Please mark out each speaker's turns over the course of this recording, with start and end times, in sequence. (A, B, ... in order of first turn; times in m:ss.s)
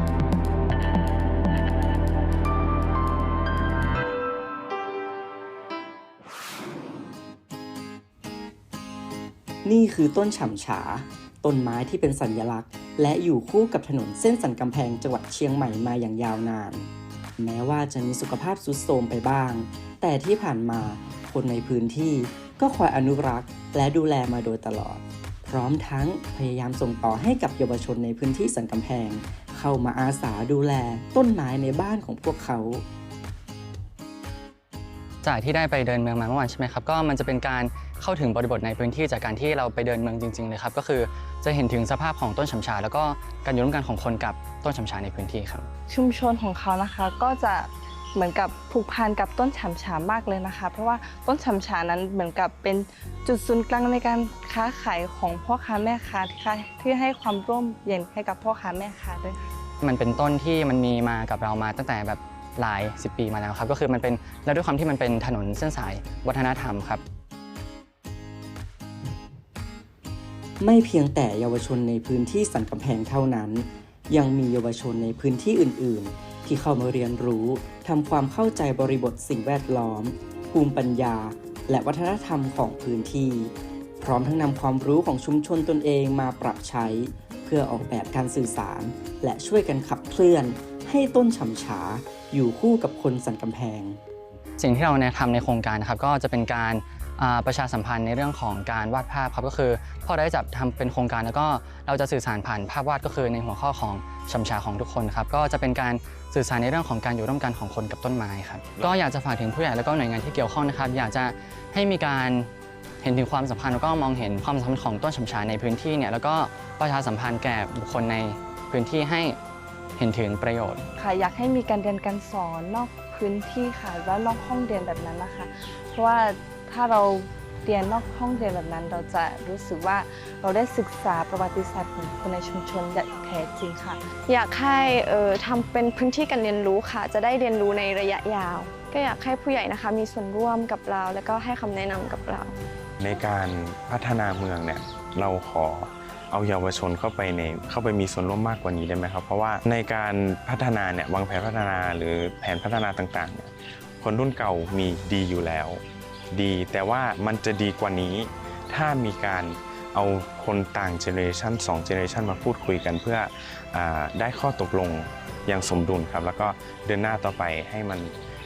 0:09.6-0:32.8 A
0:35.2-0:45.7 B
0:45.9-0:59.5 C
0:59.8-1:07.0 B
1:10.6-1:34.0 A
1:34.6-1:52.5 B
1:53.0-1:59.4 B
2:00.0-2:00.8 B
2:01.0-2:14.1 C
2:14.3-2:22.5 D
2:23.0-2:35.8 E
2:36.3-2:48.1 E